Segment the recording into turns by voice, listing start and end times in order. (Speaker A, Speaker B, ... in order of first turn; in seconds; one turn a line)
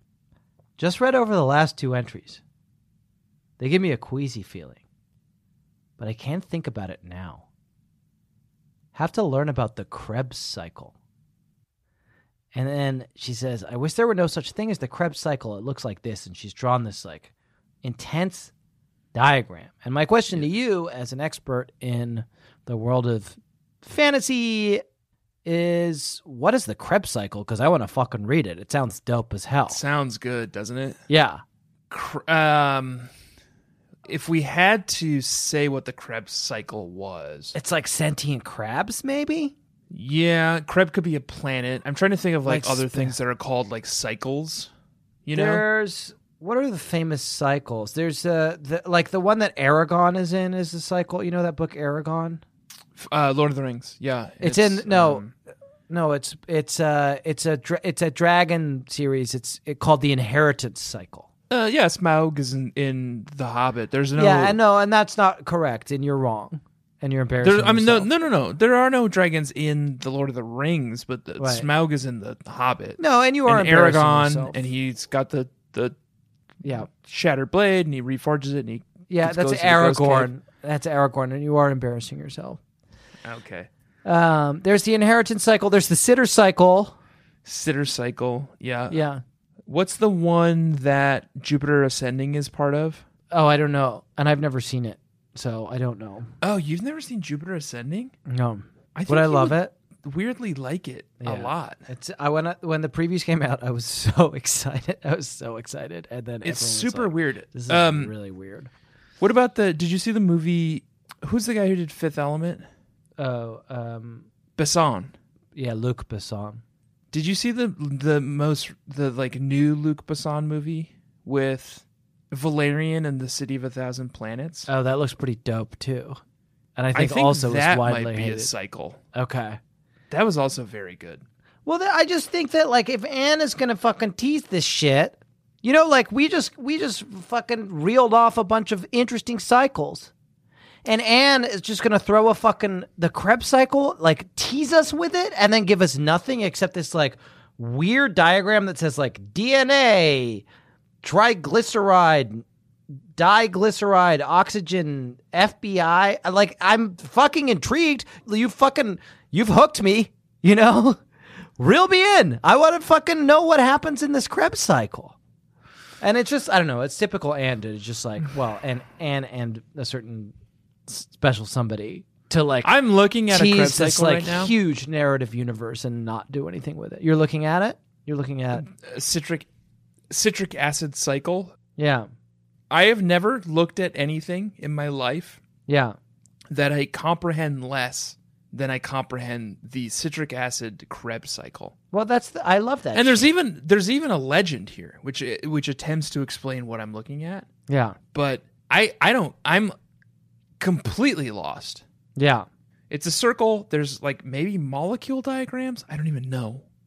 Speaker A: 0.8-2.4
Speaker A: 3.6-4.8
Speaker A: 6.0-7.4
Speaker A: 8.9-10.9
Speaker A: 12.5-17.3
Speaker A: 17.8-18.5
Speaker A: 19.1-24.8
Speaker A: 25.4-29.8
Speaker B: 29.7-31.0
Speaker A: 31.1-31.4
Speaker B: 31.9-33.1
Speaker B: 34.0-37.5
Speaker A: 37.5-39.5
Speaker B: 39.9-44.7
Speaker A: 42.4-43.1
Speaker B: 45.2-45.7
Speaker A: 45.3-52.4
Speaker B: 53.0-55.3
Speaker A: 54.4-55.3
Speaker A: 55.9-61.3
Speaker B: 61.5-64.6
Speaker A: 64.2-68.1
Speaker B: 67.4-76.0
Speaker A: 71.4-71.7
Speaker A: 73.0-74.6
Speaker A: 76.6-76.9
Speaker B: 76.7-80.3
Speaker A: 79.1-82.6
Speaker B: 83.2-83.7
Speaker A: 84.0-86.9
Speaker B: 87.4-89.0
Speaker A: 88.9-89.2
Speaker B: 89.7-93.0
Speaker A: 93.3-96.3
Speaker B: 96.4-98.1
Speaker A: 98.3-99.7
Speaker B: 98.9-101.8
Speaker A: 101.2-108.7
Speaker B: 106.4-108.1
Speaker B: 109.2-112.7
Speaker A: 113.2-114.2
Speaker B: 114.6-115.1
Speaker A: 115.5-116.6
Speaker B: 117.1-124.7
Speaker A: 124.7-126.2
Speaker A: 126.8-128.5
Speaker B: 126.9-129.0
Speaker A: 129.1-129.6
Speaker B: 130.1-131.2
Speaker A: 131.7-140.1
Speaker A: 140.8-150.4
Speaker A: 151.0-152.4
Speaker A: 153.2-161.0
Speaker A: 161.6-165.1
Speaker A: 166.0-170.3
Speaker A: 170.9-172.7
Speaker B: 172.6-174.5
Speaker A: 173.3-178.7
Speaker B: 178.5-179.5
Speaker B: 180.1-181.6
Speaker A: 181.8-182.1
Speaker B: 182.7-185.4
Speaker A: 185.7-185.9
Speaker B: 186.5-191.7
Speaker A: 191.9-193.3
Speaker B: 192.9-197.5
Speaker A: 197.7-198.0
Speaker B: 198.1-199.7
Speaker B: 200.6-201.8
Speaker A: 202.2-202.5
Speaker B: 202.9-206.6